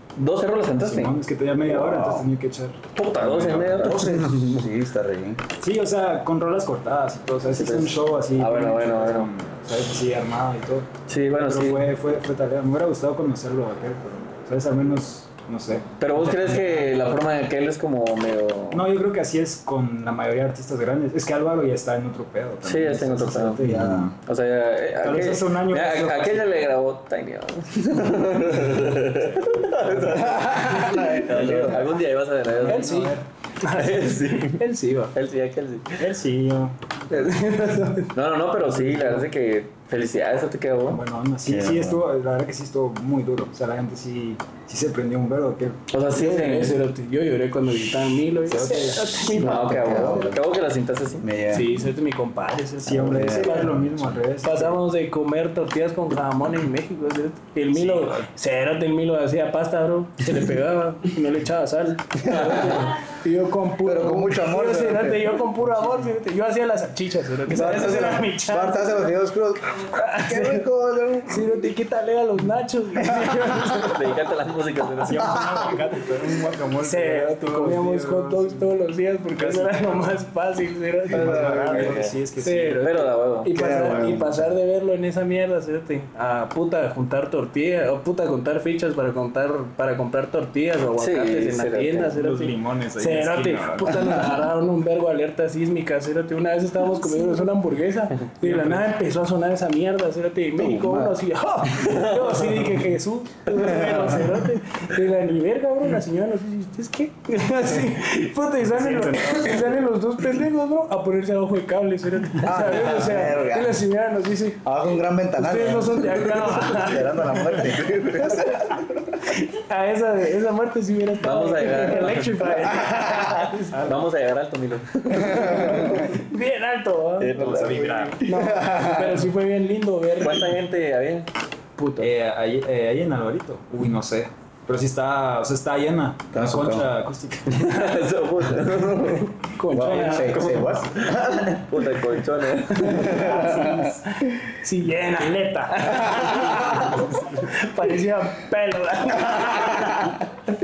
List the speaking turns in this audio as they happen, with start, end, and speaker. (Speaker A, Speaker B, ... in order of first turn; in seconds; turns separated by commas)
Speaker A: 0.2-1.2, Speaker B: 0.8-2.8, Speaker A: 1.7-2.2, Speaker A: 3.0-4.7, Speaker C: 3.2-5.4, Speaker B: 5.6-16.9, Speaker A: 7.5-9.3, Speaker A: 11.1-11.9, Speaker A: 16.0-18.9, Speaker B: 18.7-24.1, Speaker A: 22.6-23.6, Speaker C: 23.6-24.1, Speaker A: 24.2-32.9, Speaker B: 25.0-26.6, Speaker B: 28.7-30.3, Speaker C: 30.1-32.0, Speaker B: 31.4-31.7, Speaker B: 32.5-33.2, Speaker D: 32.6-35.1, Speaker A: 33.6-34.6, Speaker A: 35.1-36.0, Speaker B: 36.0-37.3, Speaker D: 37.1-38.1, Speaker A: 38.1-41.0, Speaker B: 38.6-39.3, Speaker B: 40.9-45.8, Speaker C: 41.5-42.0, Speaker A: 45.9-46.8, Speaker D: 46.1-50.3, Speaker B: 48.5-49.4, Speaker C: 49.3-50.4, Speaker A: 49.4-51.2, Speaker C: 51.2-51.7, Speaker D: 51.5-53.8, Speaker B: 52.8-54.8, Speaker C: 52.9-54.0, Speaker D: 54.4-69.1, Speaker B: 57.8-58.3, Speaker C: 62.2-63.0, Speaker A: 62.3-62.7, Speaker C: 63.8-65.5, Speaker B: 65.8-66.1, Speaker C: 67.5-71.5, Speaker D: 69.8-70.7, Speaker D: 71.3-74.2, Speaker A: 73.8-75.4, Speaker B: 75.0-78.7, Speaker C: 75.2-75.7, Speaker D: 76.8-81.6, Speaker B: 79.4-80.0, Speaker B: 81.1-82.9, Speaker C: 81.1-82.0, Speaker A: 81.7-82.1, Speaker D: 82.4-114.6, Speaker A: 82.8-83.5, Speaker C: 83.5-84.5, Speaker A: 91.0-92.1, Speaker B: 92.1-94.0, Speaker B: 98.4-98.8, Speaker C: 100.6-101.2, Speaker A: 101.8-102.2, Speaker C: 103.6-104.3, Speaker B: 108.7-109.9, Speaker C: 112.4-113.8, Speaker C: 114.6-118.8, Speaker D: 115.4-117.8, Speaker A: 117.7-118.4, Speaker D: 119.2-123.8, Speaker A: 121.2-123.1, Speaker B: 123.7-124.0, Speaker A: 123.8-126.1, Speaker C: 125.1-126.0, Speaker D: 125.1-127.4, Speaker A: 127.2-128.2, Speaker B: 127.4-128.2, Speaker D: 128.2-130.6, Speaker C: 128.3-129.3, Speaker A: 130.2-131.3, Speaker D: 131.8-132.1, Speaker B: 132.0-137.9, Speaker C: 136.3-136.9, Speaker A: 137.5-139.3, Speaker D: 139.4-140.8, Speaker C: 139.7-141.7, Speaker A: 140.0-143.3, Speaker D: 142.7-150.2, Speaker C: 142.8-144.3, Speaker C: 145.9-146.8, Speaker C: 149.4-150.1